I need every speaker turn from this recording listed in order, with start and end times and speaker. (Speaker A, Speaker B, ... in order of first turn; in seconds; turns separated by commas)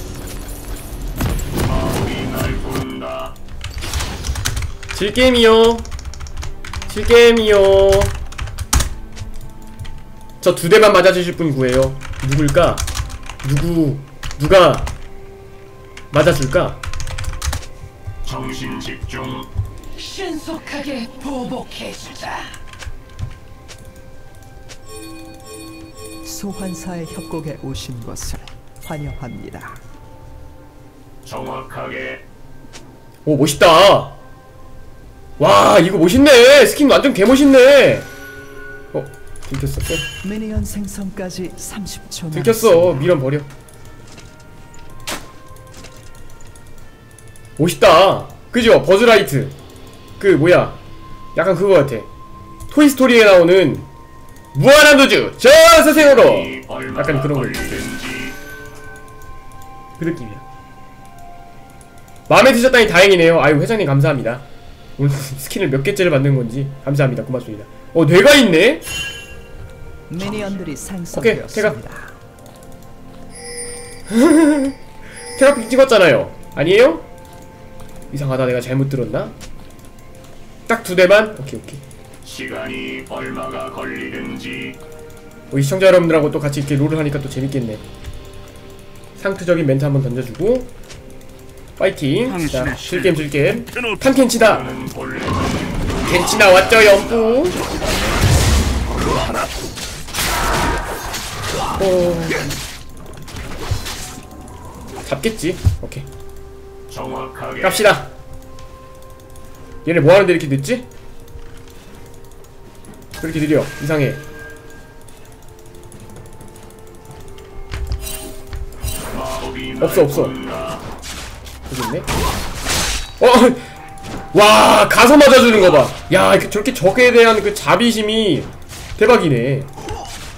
Speaker A: 1.6-3.4, Speaker B: 4.9-5.9, Speaker B: 6.9-8.2, Speaker B: 10.4-12.8, Speaker B: 13.4-14.9, Speaker B: 16.1-16.8, Speaker A: 18.2-19.5, Speaker C: 19.9-22.6, Speaker D: 26.2-29.8, Speaker A: 31.2-32.2, Speaker B: 33.3-34.1, Speaker B: 35.4-38.1, Speaker B: 38.9-40.1, Speaker D: 40.2-43.2, Speaker B: 42.3-43.5, Speaker B: 47.6-49.5, Speaker B: 50.2-50.8, Speaker B: 51.4-52.1, Speaker B: 52.7-53.9, Speaker B: 54.5-57.8, Speaker A: 56.0-58.4, Speaker B: 60.0-60.4, Speaker B: 62.3-64.4, Speaker B: 65.0-68.8, Speaker D: 70.1-72.2, Speaker B: 71.1-71.8, Speaker B: 74.1-74.8, Speaker B: 75.4-77.0, Speaker B: 78.1-79.3, Speaker B: 80.7-81.8, Speaker A: 82.2-84.8, Speaker B: 85.5-87.8, Speaker B: 89.2-90.7, Speaker B: 91.8-94.7, Speaker A: 94.3-97.8, Speaker B: 96.1-97.6, Speaker B: 101.8-102.5, Speaker B: 105.1-106.1, Speaker A: 106.9-107.9, Speaker B: 107.6-108.1, Speaker B: 109.8-110.9, Speaker B: 113.2-114.2, Speaker A: 119.1-120.8, Speaker B: 119.8-120.4, Speaker B: 121.7-122.1, Speaker B: 123.2-123.7, Speaker B: 124.3-129.7